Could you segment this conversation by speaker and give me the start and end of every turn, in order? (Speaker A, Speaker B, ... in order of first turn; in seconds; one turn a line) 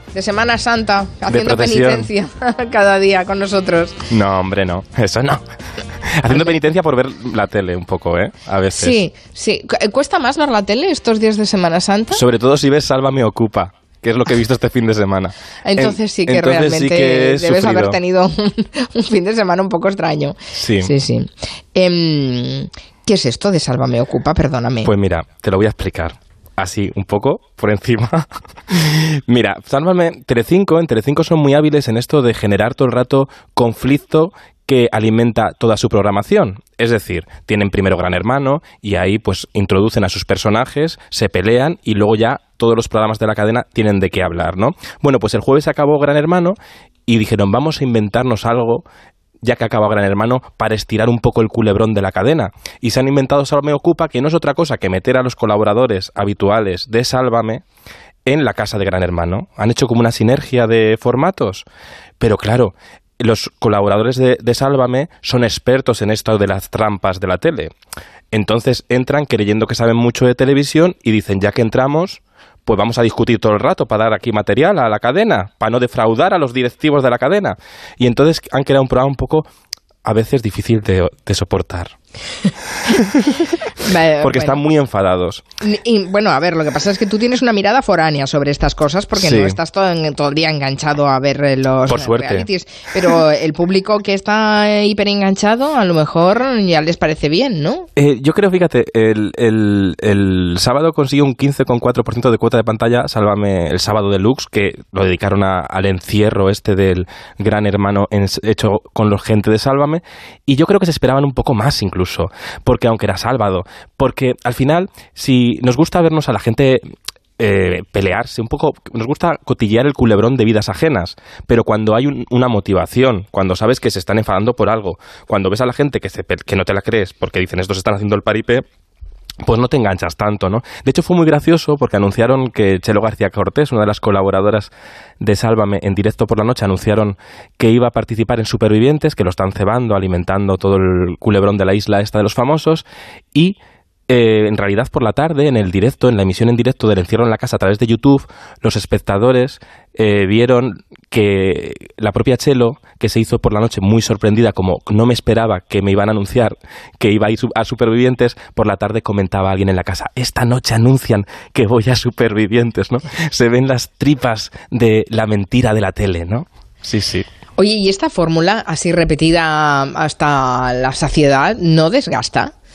Speaker A: 0.1-4.0
Speaker B: 1.3-2.1
Speaker B: 4.1-5.4
Speaker B: 6.0-9.0
Speaker A: 8.8-12.2
Speaker B: 12.1-18.0
Speaker A: 15.7-24.9
Speaker B: 20.5-20.9
Speaker B: 24.8-48.9
Speaker B: 49.4-57.6
Speaker B: 58.3-61.6
Speaker B: 62.2-67.7
Speaker B: 68.3-79.5
Speaker B: 80.0-82.0
Speaker B: 82.9-83.4
Speaker A: 83.8-84.6
Speaker B: 84.2-85.4
Speaker A: 85.6-97.9
Speaker B: 89.2-89.6
Speaker B: 91.9-92.5
Speaker B: 98.0-116.8
Speaker B: 117.4-128.7
Speaker B: 129.4-143.6
Speaker B: 144.1-167.3
Speaker A: 167.6-172.5